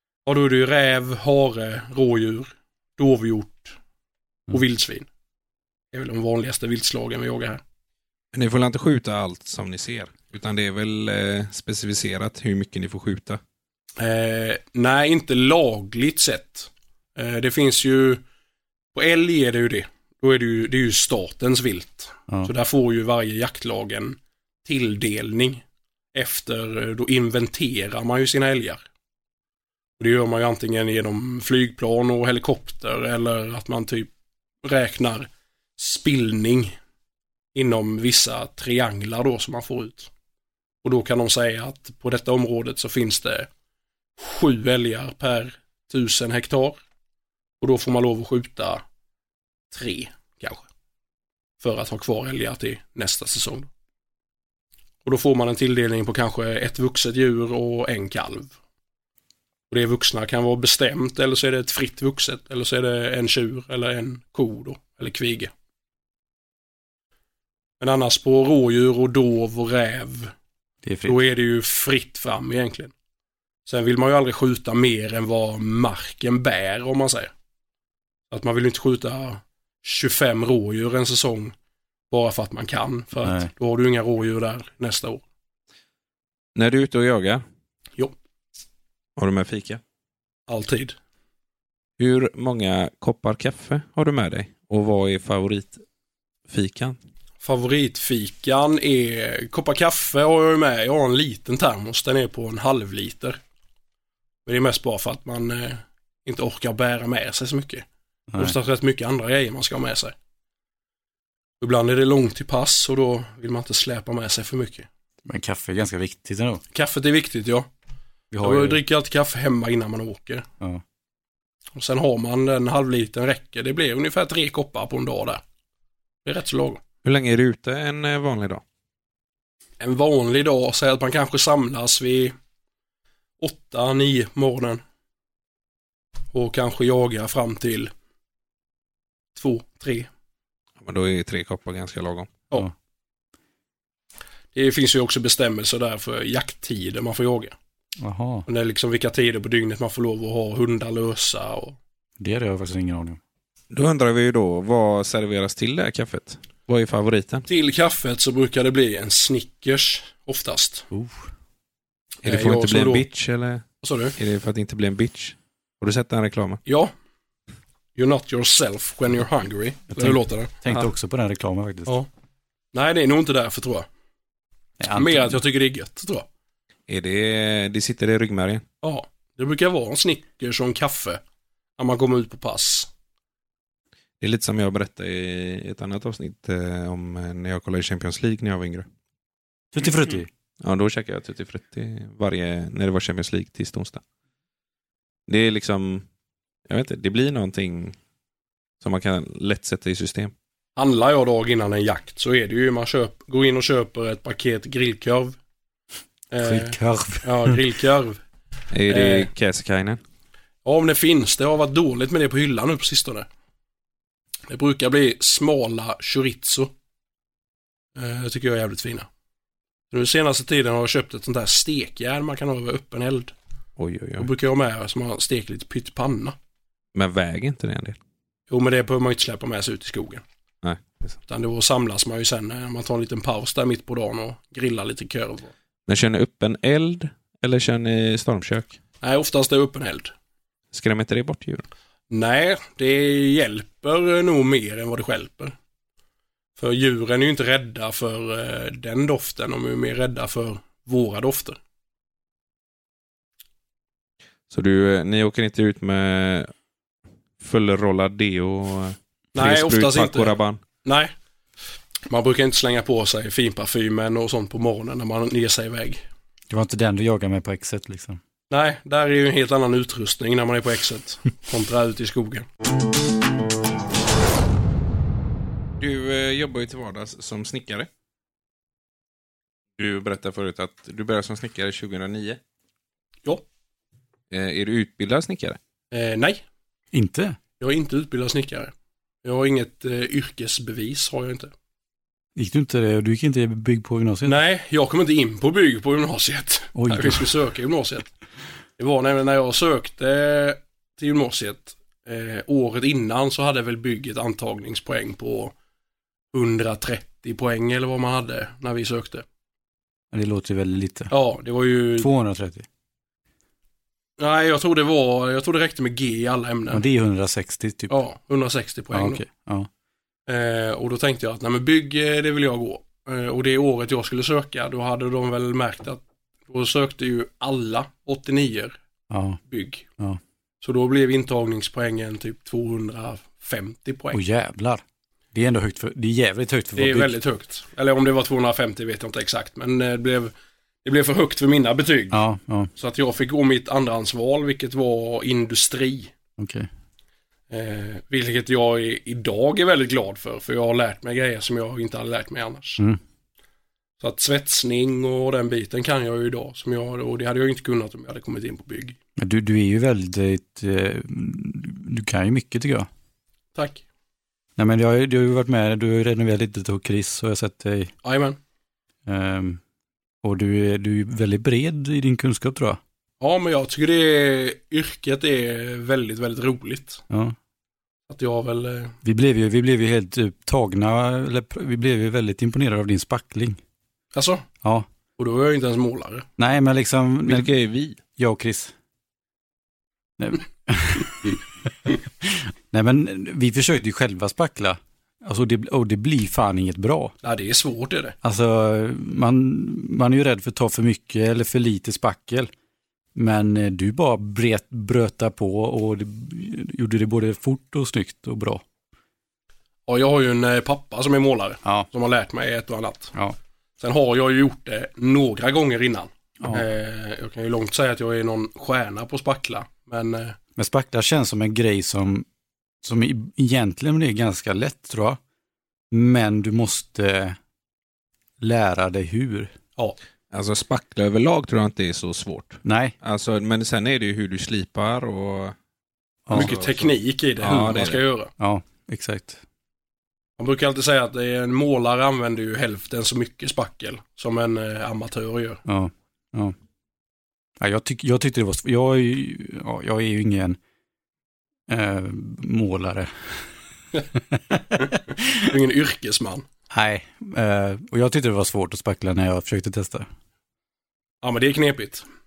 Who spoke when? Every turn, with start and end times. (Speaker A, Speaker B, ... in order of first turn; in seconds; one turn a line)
Speaker A: 0.2-3.8
Speaker A: 4.5-5.1
Speaker A: 5.9-7.6
Speaker B: 8.3-13.4
Speaker A: 14.0-18.2
Speaker A: 18.9-25.6
Speaker A: 26.1-28.8
Speaker A: 30.0-34.1
Speaker A: 34.6-36.8
Speaker A: 37.5-40.1
Speaker A: 40.8-43.5
Speaker A: 44.2-46.8
Speaker A: 47.6-48.8
Speaker A: 49.7-50.6
Speaker A: 51.6-53.7
Speaker A: 55.0-58.5
Speaker A: 59.7-65.5
Speaker A: 67.8-70.3
Speaker C: 70.8-71.2
Speaker A: 71.1-72.9
Speaker A: 73.7-77.3
Speaker A: 78.3-81.5
Speaker A: 82.1-85.2
Speaker C: 83.2-83.5
Speaker B: 86.5-87.4
Speaker B: 89.2-89.8
Speaker A: 90.5-90.9
Speaker B: 92.0-95.8
Speaker B: 96.5-97.0
Speaker A: 97.4-103.4
Speaker A: 104.5-107.8
Speaker A: 108.4-110.1
Speaker A: 111.6-114.9
Speaker C: 115.2-116.6
Speaker A: 116.7-117.7
Speaker C: 118.3-118.8
Speaker A: 118.4-120.5
Speaker A: 121.7-125.4
Speaker A: 126.2-126.8
Speaker B: 127.0-128.6
Speaker A: 129.8-132.3
Speaker A: 133.4-134.8
Speaker A: 136.3-137.9
Speaker A: 139.3-140.1
Speaker B: 140.8-142.4
Speaker A: 144.5-147.5
Speaker C: 148.0-148.4
Speaker A: 148.5-151.8
Speaker C: 152.2-153.2
Speaker B: 153.7-157.5
Speaker A: 157.5-160.9
Speaker C: 160.9-161.3
Speaker A: 162.2-163.0
Speaker B: 162.2-163.6
Speaker A: 163.8-164.2
Speaker B: 164.2-166.6
Speaker A: 166.7-166.9
Speaker A: 167.9-170.6
Speaker C: 169.9-171.9
Speaker A: 172.7-173.9
Speaker C: 174.8-175.4
Speaker A: 174.9-176.2
Speaker B: 176.9-178.6
Speaker A: 178.8-181.2
Speaker A: 181.8-182.9
Speaker B: 184.2-188.8
Speaker C: 189.7-190.3
Speaker B: 190.6-194.0
Speaker B: 195.3-196.1
Speaker B: 196.7-198.0
Speaker B: 198.8-200.3
Speaker A: 200.8-205.4
Speaker A: 206.3-208.2
Speaker C: 206.4-207.6
Speaker B: 208.7-210.0
Speaker A: 208.9-209.3
Speaker A: 210.6-213.3
Speaker A: 214.5-216.7
Speaker A: 217.9-219.1
Speaker A: 219.9-223.3
Speaker B: 223.8-224.3
Speaker A: 224.2-226.3
Speaker B: 226.9-228.0
Speaker A: 228.5-230.2
Speaker B: 230.6-231.2
Speaker A: 231.3-235.5
Speaker B: 235.9-238.8
Speaker A: 239.0-240.1
Speaker B: 240.7-241.7
Speaker A: 242.1-245.5
Speaker A: 246.6-251.6
Speaker B: 254.5-256.5
Speaker B: 257.4-260.6
Speaker A: 259.3-261.1
Speaker A: 262.1-266.0
Speaker C: 266.5-268.2
Speaker A: 268.5-272.5
Speaker B: 275.8-277.9
Speaker B: 279.8-282.4
Speaker B: 284.3-285.6
Speaker A: 285.9-286.4
Speaker C: 286.9-287.4
Speaker A: 287.6-288.7
Speaker A: 289.2-291.5
Speaker C: 292.4-294.4
Speaker A: 294.2-298.1
Speaker C: 296.7-297.3
Speaker A: 298.8-305.5
Speaker A: 306.3-309.2
Speaker C: 310.1-311.1
Speaker A: 311.1-312.1
Speaker C: 312.0-312.6
Speaker A: 314.2-316.8
Speaker C: 316.7-317.9
Speaker A: 317.9-319.2
Speaker C: 318.9-319.7
Speaker A: 320.3-328.8
Speaker C: 329.1-329.4
Speaker A: 329.5-329.9
Speaker A: 330.6-334.2
Speaker C: 334.1-334.8
Speaker C: 335.3-337.1
Speaker A: 336.8-340.3
Speaker A: 340.8-342.2
Speaker C: 342.1-342.7
Speaker A: 342.8-346.1
Speaker C: 346.4-346.7
Speaker A: 347.5-352.8
Speaker A: 354.0-359.0
Speaker C: 359.2-362.9
Speaker A: 363.5-363.8
Speaker C: 364.6-367.9
Speaker A: 368.0-368.4
Speaker C: 369.1-369.6
Speaker C: 370.2-372.8
Speaker A: 373.2-377.0
Speaker C: 377.1-377.4
Speaker A: 378.1-379.0
Speaker C: 379.0-383.6
Speaker A: 384.1-384.4
Speaker C: 384.6-384.9
Speaker A: 385.2-386.3
Speaker C: 386.4-387.5
Speaker B: 387.2-388.0
Speaker C: 388.1-388.7
Speaker C: 390.2-397.1
Speaker A: 397.2-398.1
Speaker C: 398.2-402.5
Speaker C: 403.1-408.6
Speaker A: 409.9-413.1
Speaker A: 413.8-420.4
Speaker C: 420.6-422.2
Speaker C: 422.8-425.2
Speaker C: 425.9-427.4
Speaker C: 428.4-429.5
Speaker B: 430.3-435.6
Speaker C: 432.6-432.9
Speaker C: 436.2-436.5
Speaker A: 436.3-438.3
Speaker B: 436.3-436.9
Speaker B: 437.4-438.0
Speaker C: 438.4-439.4
Speaker A: 440.4-445.6
Speaker C: 445.6-446.5
Speaker C: 447.6-450.6
Speaker C: 451.7-453.4
Speaker C: 454.3-455.5
Speaker A: 455.4-456.4
Speaker C: 456.7-460.1
Speaker A: 461.2-462.0